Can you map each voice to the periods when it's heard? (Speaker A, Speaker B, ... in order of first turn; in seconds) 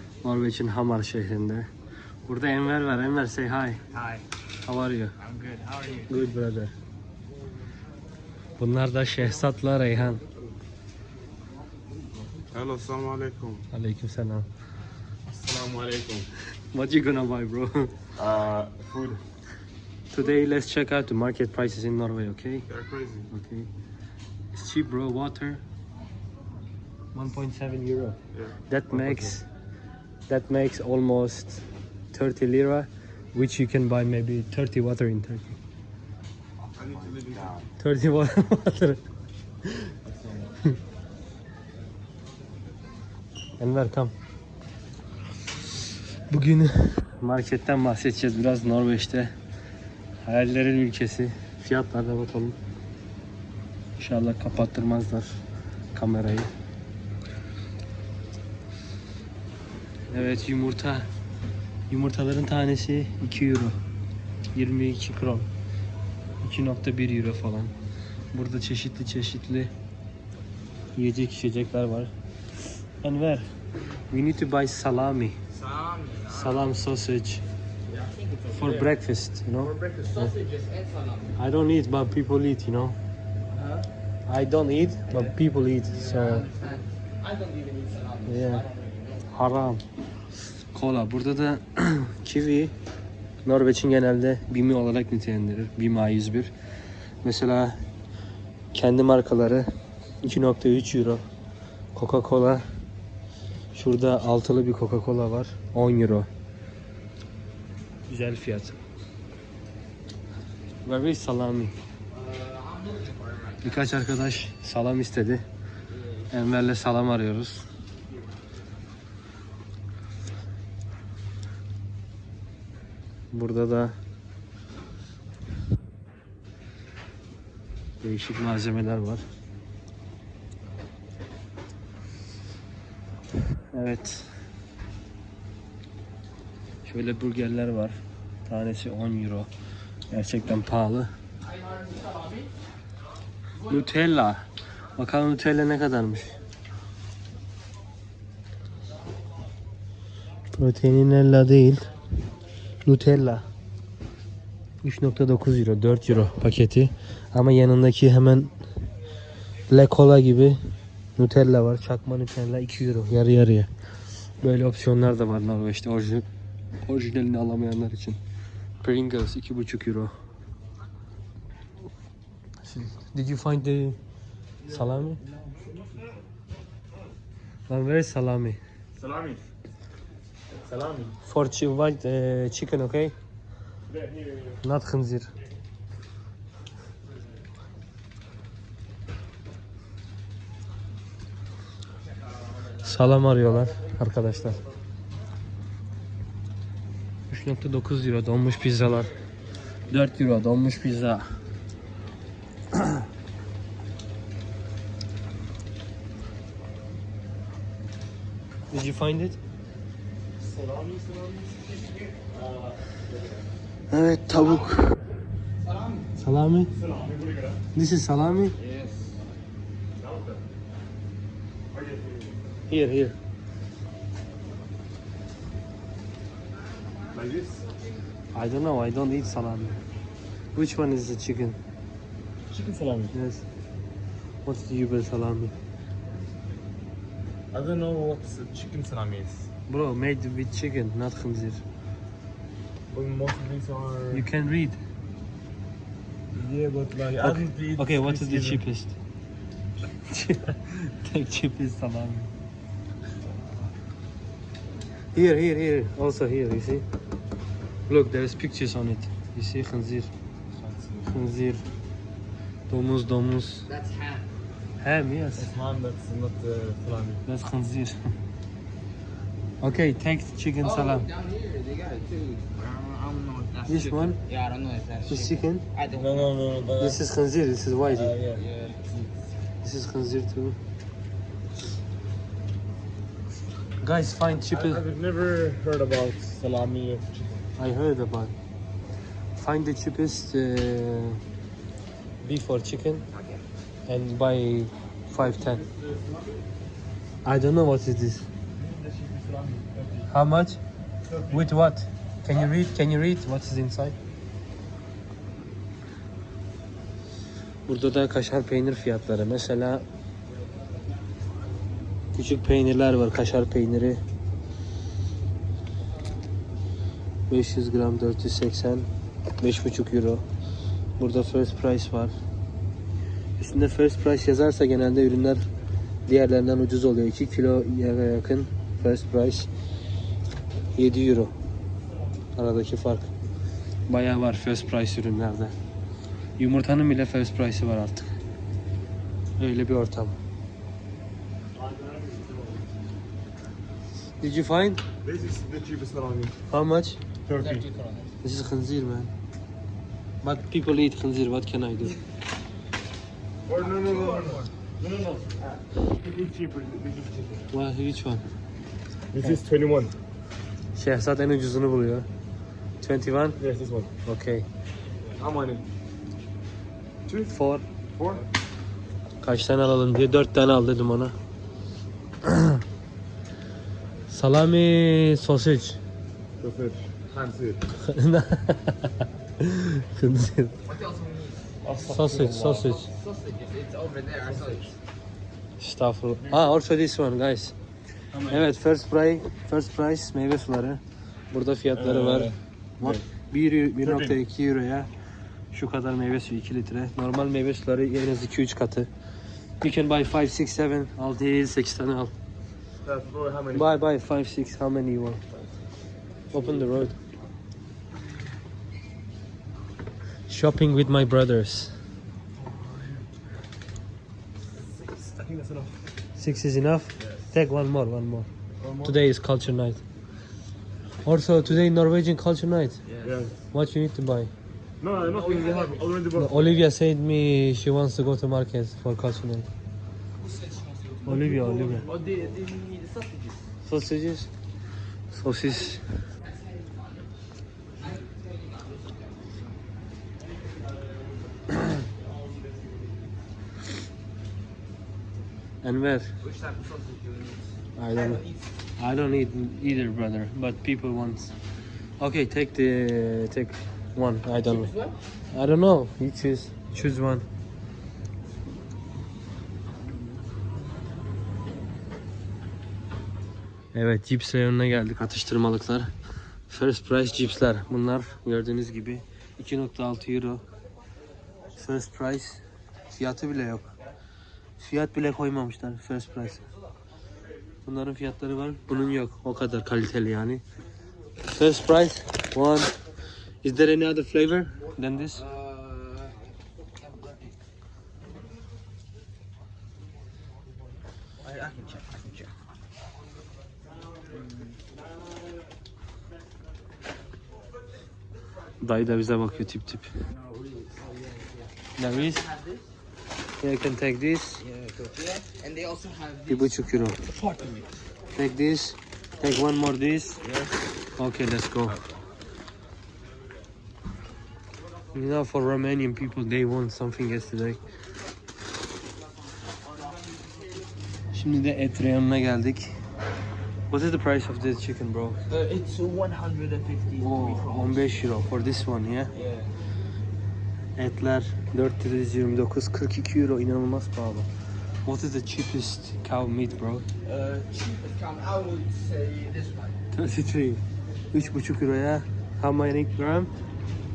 Speaker A: 0.2-1.7, 2.2-3.8, 4.6-5.1, 6.1-6.7, 8.6-10.2, 13.7-14.5, 16.7-17.9, 20.1-22.7, 23.3-23.7, 24.5-25.6, 27.1-29.5, 30.3-35.6, 37.8-39.0, 39.6-39.9, 43.6-44.1, 46.3-49.3, 50.2-52.6, 54.0-55.4, 55.9-56.5, 60.1-61.1, 61.9-63.8, 64.5-65.5, 66.4-67.7, 68.3-69.7, 70.9-72.1, 73.0-73.5, 74.1-75.3, 76.3-77.4, 78.5-80.3, 81.4-83.0, 84.3-86.5, 88.3-88.7, 89.3-89.8, 90.7-92.7, 93.4-96.5, 97.2-97.8, 98.7-99.7, 100.2-101.2, 101.9-102.7, 103.7-106.3, 108.1-108.8, 110.8-111.8, 113.6-115.4, 116.3-117.7, 123.3-124.0, 128.0-129.2, 133.7-134.3, 136.8-139.5, 140.1-141.1, 143.6-144.4, 145.0-146.4, 150.5-151.9, 152.8-153.4, 154.8-158.5, 159.7-160.6, 161.2-163.7, 164.4-166.3, 166.8-168.2, 168.8-170.1, 172.6-174.0, 174.7-175.2, 177.7-178.6, 181.2-183.2, 184.6-185.3, 192.8-194.6, 197.3-199.1, 199.9-201.3, 202.7-203.0, 208.7-209.4, 213.9-215.0, 216.2-216.7, 217.7-218.5, 222.7-223.2, 228.3-229.8, 230.5-231.6, 233.1-233.4, 234.4-235.5, 239.7-241.6, 244.1-244.8, 247.2-248.9, 250.1-252.3, 255.1-256.8, 257.9-260.1, 261.1-261.6, 262.7-263.7, 264.8-265.5, 267.2-268.1, 269.6-271.1, 273.7-274.2, 275.1-275.6, 276.8-278.1, 279.6-280.6, 283.8-284.8, 287.6-288.3, 289.4-291.2, 292.2-293.1, 293.9-295.6, 297.2-298.3, 300.1-300.6, 301.3-303.9, 307.7-309.8, 312.1-314.0, 317.3-318.9, 319.4-320.2, 321.0-322.1, 323.4-325.4, 326.1-329.5, 330.7-331.3, 332.3-333.1, 333.9-335.5, 336.4-338.1, 339.4-340.2, 344.2-344.8, 346.5-347.0, 348.2-349.1, 350.2-352.0, 357.5-358.2, 360.8-362.1, 362.8-363.4, 364.1-364.5, 367.3-367.6, 369.2-371.1, 372.2-372.6, 374.1-375.8, 377.8-380.5, 381.9-382.9, 385.6-387.5, 388.2-394.9, 395.5-398.9, 399.6-402.1, 403.5-405.2, 406.3-406.9, 410.3-411.8, 416.1-418.3, 418.8-419.8, 421.0-422.8, 423.5-424.3, 426.1-429.5, 431.1-431.9, 433.6-434.3, 435.1-435.8, 445.6-446.1, 447.8-448.2, 448.8-451.3, 452.0-454.7, 455.3-457.2, 463.7-465.9, 466.5-470.4, 471.6-473.7, 474.6-476.4, 477.6-480.4, 481.3-482.7, 483.4-485.2, 498.6-499.9, 501.8-502.2, 503.4-504.4, 506.3-507.0, 508.1-510.2, 511.0-511.8, 514.9-517.6, 521.1-522.8, 523.7-525.2, 527.0-529.1, 530.8-534.3, 534.8-536.9, 539.9-543.3
Speaker B: 3.9-4.2, 5.2-6.3, 11.9-12.5, 36.8-37.6, 75.5-76.8, 77.8-78.9, 79.6-81.4, 83.5-83.9, 85.1-89.5, 112.1-113.9, 115.9-116.3, 141.5-142.5, 174.7-175.9, 215.6-216.1, 218.5-219.2, 263.7-264.3, 270.6-276.4, 278.2-279.3, 293.1-293.4, 347.3-348.2, 353.6-354.6, 380.6-381.6, 382.4-384.8, 422.8-423.3, 425.0-426.0, 430.2-433.5, 436.2-436.9, 437.8-439.6, 446.2-448.6, 454.3-455.0, 485.1-487.4, 491.2-492.3, 494.0-494.6, 500.0-502.7, 504.4-507.9, 510.2-510.8, 511.6-512.0, 525.3-528.1, 529.1-529.5, 537.0-539.8
Speaker C: 12.5-13.7, 15.3-16.3, 18.1-19.2, 22.7-23.3, 28.3-29.4, 36.8-37.7, 40.0-40.5, 178.9-179.4, 180.6-181.2, 184.0-184.3, 210.4-213.0, 216.7-217.6, 220.0-220.4, 221.7-222.3, 227.1-227.7, 232.5-233.2, 237.5-239.5, 242.9-244.3, 246.3-248.6, 260.5-261.3, 265.3-267.2, 275.9-277.0, 277.9-278.4, 284.4-287.5, 295.2-296.4, 298.6-300.1, 301.0-301.5, 341.6-342.6, 345.0-346.4, 347.3-347.6, 353.4-357.5, 359.1-359.9, 363.4-363.9, 365.1-365.7, 367.1-367.3, 367.9-368.2, 376.4-377.7, 381.6-382.7, 386.2-386.5, 391.7-393.0, 393.8-394.2, 402.8-403.7, 412.5-412.9, 414.6-415.9, 417.0-417.3, 418.6-419.0, 423.0-423.4, 424.8-426.6, 431.1-431.8